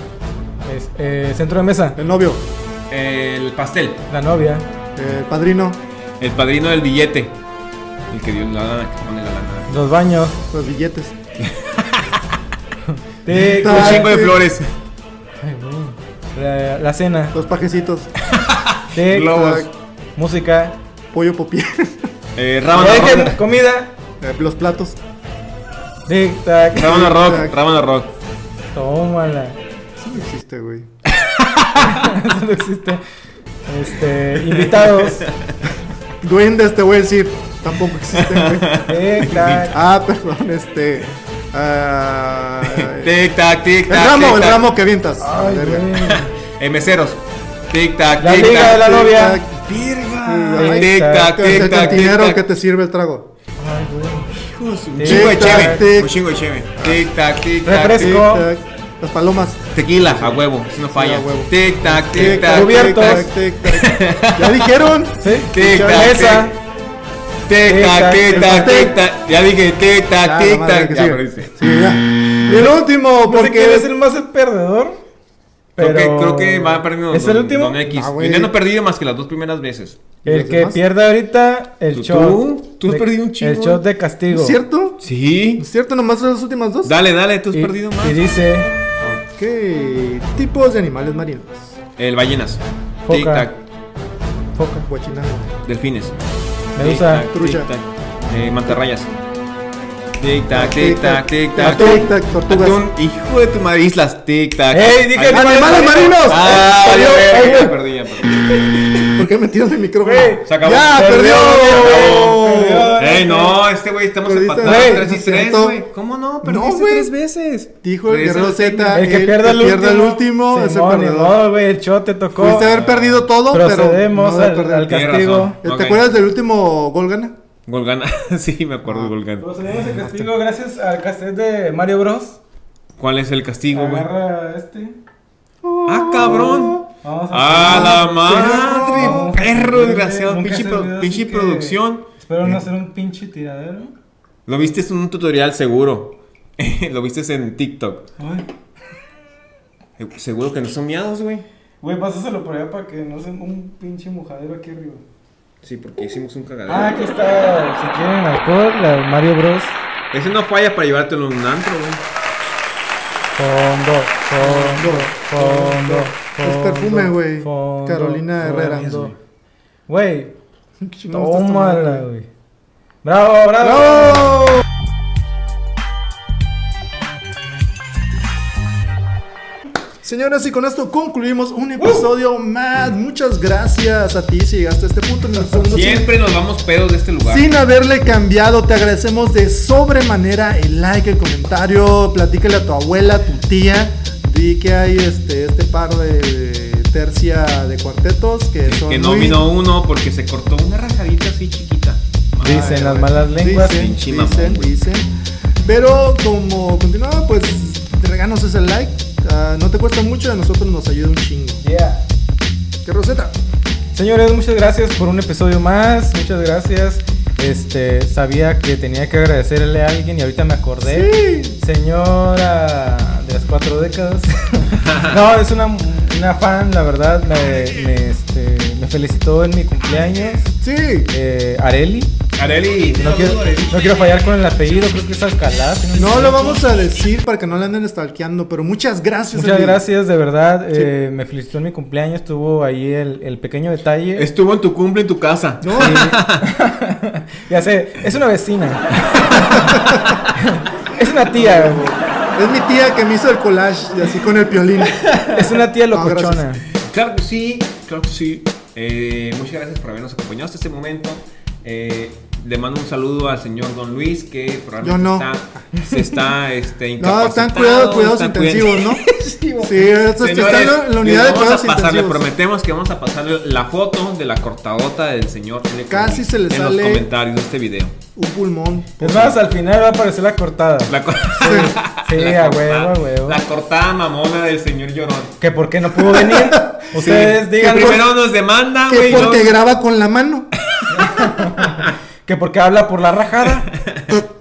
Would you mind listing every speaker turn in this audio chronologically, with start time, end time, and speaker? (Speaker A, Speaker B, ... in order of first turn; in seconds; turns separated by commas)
Speaker A: 0.7-2.0, Speaker B: 1.9-2.4, Speaker C: 2.9-4.0, Speaker A: 4.1-4.7, Speaker B: 5.0-5.8, Speaker C: 6.2-7.4, Speaker C: 8.1-9.8, Speaker A: 9.7-10.4, Speaker B: 10.5-11.1, Speaker C: 11.4-12.2, Speaker A: 12.9-14.2, Speaker B: 13.3-14.4, Speaker C: 13.3-14.7, Speaker A: 15.4-17.4, Speaker B: 17.3-18.1, Speaker C: 18.3-19.7, Speaker A: 18.9-20.8, Speaker B: 19.2-19.7, Speaker B: 21.1-22.1, Speaker C: 22.4-23.4, Speaker A: 22.7-23.9, Speaker B: 24.2-25.0, Speaker A: 26.1-27.1, Speaker C: 26.7-28.1, Speaker B: 26.8-27.6, Speaker A: 28.7-29.6, Speaker B: 30.0-30.9, Speaker C: 31.1-32.1, Speaker A: 31.8-33.0, Speaker A: 33.7-35.3, Speaker C: 34.5-35.5, Speaker B: 36.2-38.7, Speaker C: 38.1-39.7, Speaker A: 38.9-39.8, Speaker B: 39.6-43.1, Speaker C: 42.7-44.6, Speaker B: 43.9-46.1, Speaker A: 45.2-46.3, Speaker C: 46.1-48.9, Speaker A: 48.2-49.4, Speaker B: 48.6-49.6, Speaker C: 49.6-52.4, Speaker B: 50.2-53.3, Speaker A: 50.5-52.1, Speaker A: 53.6-54.3, Speaker C: 54.3-58.2, Speaker A: 55.0-55.9, Speaker B: 55.0-56.2, Speaker B: 56.7-57.1, Speaker A: 57.6-58.5, Speaker B: 58.0-66.2, Speaker C: 59.7-64.7, Speaker A: 61.9-63.3, Speaker A: 65.2-66.5, Speaker C: 65.4-66.5, Speaker C: 67.5-71.5, Speaker A: 67.7-68.9, Speaker B: 68.3-69.0, Speaker B: 70.2-73.9, Speaker A: 72.5-75.0, Speaker A: 75.8-77.9, Speaker C: 75.8-80.0, Speaker B: 77.9-78.5, Speaker A: 80.2-84.6, Speaker B: 80.2-80.8, Speaker C: 81.9-83.8, Speaker B: 84.3-85.0, Speaker C: 85.0-85.7, Speaker B: 85.6-86.9, Speaker C: 86.8-88.2, Speaker A: 87.5-88.7, Speaker B: 89.0-91.8, Speaker C: 92.0-93.6, Speaker A: 93.1-93.5, Speaker A: 94.5-94.9, Speaker B: 94.9-95.5, Speaker C: 95.6-96.2, Speaker A: 96.8-97.3, Speaker C: 96.8-99.1, Speaker B: 97.3-97.7, Speaker C: 100.2-109.1, Speaker B: 100.5-102.9, Speaker A: 101.6-102.1, Speaker A: 104.7-107.8, Speaker B: 105.3-106.7, Speaker B: 109.1-113.0, Speaker A: 110.0-113.6, Speaker C: 110.5-112.4, Speaker C: 113.0-119.0, Speaker B: 114.2-115.8, Speaker A: 114.6-115.0, Speaker B: 116.4-117.1, Speaker B: 117.8-121.4, Speaker A: 118.9-122.7, Speaker C: 122.4-123.3, Speaker B: 122.4-124.9, Speaker A: 123.5-125.6, Speaker C: 124.9-126.0, Speaker B: 125.6-127.4, Speaker C: 127.7-129.5, Speaker B: 128.9-129.1, Speaker A: 129.4-132.4, Speaker B: 130.0-130.3, Speaker C: 133.0-134.1, Speaker A: 133.7-134.9, Speaker B: 135.6-136.9, Speaker C: 135.9-142.1, Speaker A: 136.9-143.9, Speaker B: 137.6-139.3, Speaker C: 144.5-148.1, Speaker A: 148.2-148.5, Speaker C: 150.0-151.4, Speaker A: 151.8-155.0, Speaker C: 155.6-156.9, Speaker A: 156.7-159.8, Speaker C: 160.1-162.0, Speaker A: 163.4-169.1, Speaker B: 164.4-169.1, Speaker C: 168.7-169.2, Speaker A: 169.9-170.4, Speaker B: 170.8-172.1, Speaker A: 171.1-172.3, Speaker A: 173.0-174.4, Speaker B: 173.6-174.6, Speaker B: 180.0-186.1, Speaker A: 181.8-182.1, Speaker C: 185.7-187.5, Speaker B: 187.2-199.4, Speaker C: 198.6-202.9, Speaker A: 202.4-203.9, Speaker B: 202.4-211.6, Speaker C: 203.6-204.7, Speaker A: 211.6-212.0, Speaker B: 212.8-213.3, Speaker A: 213.9-230.6, Speaker B: 220.8-221.6, Speaker C: 224.8-225.2, Speaker B: 230.6-231.1, Speaker A: 231.1-232.2, Speaker C: 232.4-234.2, Speaker A: 232.9-236.7, Speaker B: 235.9-239.8, Speaker A: 239.3-244.3, Speaker C: 244.2-246.4, Speaker B: 245.6-246.1, Speaker A: 245.8-251.8, Speaker B: 251.3-255.0, Speaker C: 255.0-255.4, Speaker A: 255.3-256.6, Speaker B: 255.9-256.4, Speaker C: 256.9-277.9, Speaker B: 264.8-265.7, Speaker B: 267.0-272.3, Speaker B: 275.9-277.1, Speaker B: 278.1-279.4, Speaker A: 279.0-283.4, Speaker C: 280.9-285.4, Speaker B: 281.4-281.7, Speaker A: 285.4-288.1, Speaker B: 286.0-286.9, Speaker C: 286.9-289.6, Speaker B: 287.6-288.0, Speaker B: 288.9-290.5, Speaker A: 290.9-293.8, Speaker C: 293.7-294.2